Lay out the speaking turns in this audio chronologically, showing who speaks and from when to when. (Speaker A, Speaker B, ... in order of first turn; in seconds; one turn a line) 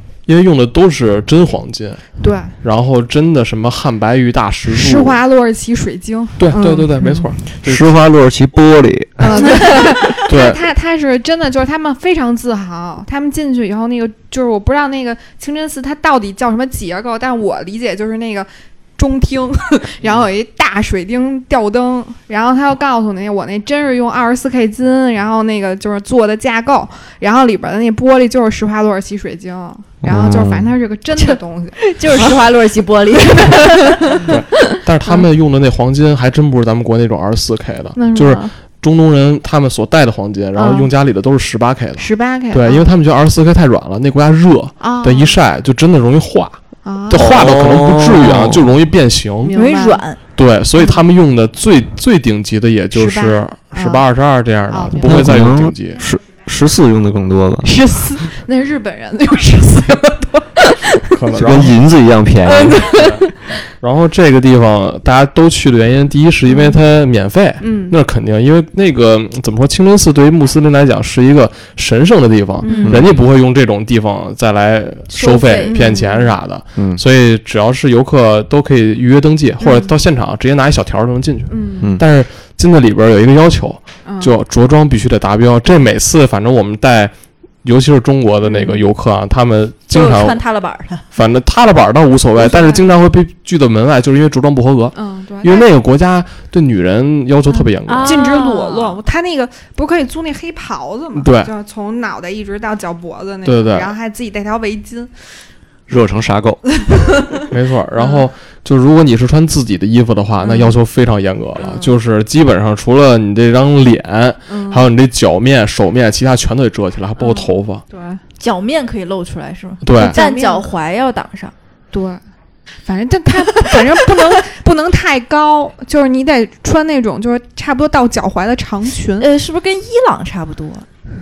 Speaker A: 0.3-2.0
Speaker B: 2.2-2.5
Speaker A: 2.6-5.2
Speaker B: 4.7-7.2
Speaker A: 6.4-8.0
Speaker C: 7.6-9.9
Speaker B: 9.2-32.4
Speaker A: 10.2-10.6
Speaker C: 30.0-30.7
Speaker D: 31.1-34.2
Speaker B: 33.4-34.3
Speaker A: 34.2-49.5
Speaker B: 38.0-38.5
Speaker B: 40.5-40.9
Speaker B: 42.0-42.9
Speaker B: 44.8-45.4
Speaker B: 46.8-47.4
Speaker C: 47.1-48.7
Speaker B: 49.4-50.0
Speaker D: 49.5-50.2
Speaker A: 50.3-56.0
Speaker B: 52.9-54.0
Speaker B: 54.7-55.3
Speaker C: 55.0-57.8
Speaker B: 57.6-61.0
Speaker A: 61.1-61.8
Speaker C: 61.3-63.0
Speaker B: 62.5-63.3
Speaker A: 62.9-63.3
Speaker A: 63.8-87.1
Speaker B: 67.6-68.0
Speaker B: 72.6-73.0
Speaker D: 72.6-72.9
Speaker C: 72.8-73.1
Speaker D: 75.1-76.0
Speaker B: 75.7-76.4
Speaker C: 76.8-77.0
Speaker B: 79.6-80.0
Speaker B: 81.5-81.9
Speaker B: 84.0-84.3
Speaker A: 87.6-90.4
Speaker B: 88.4-88.8
Speaker D: 89.9-91.0
Speaker A: 91.1-98.2
Speaker B: 92.4-92.9
Speaker B: 94.9-95.7
Speaker D: 97.9-99.0
Speaker B: 98.0-105.1
Speaker A: 101.1-101.5
Speaker A: 103.4-103.9
Speaker C: 105.9-106.6
Speaker A: 107.5-117.8
Speaker B: 108.0-108.2
Speaker B: 110.4-110.8
Speaker B: 111.6-111.9
Speaker B: 114.5-114.9
Speaker B: 117.2-118.2
Speaker D: 118.4-121.5
Speaker A: 119.8-120.2
Speaker B: 119.9-120.7
Speaker B: 121.9-122.2
Speaker B: 122.8-129.3
Speaker D: 129.2-130.8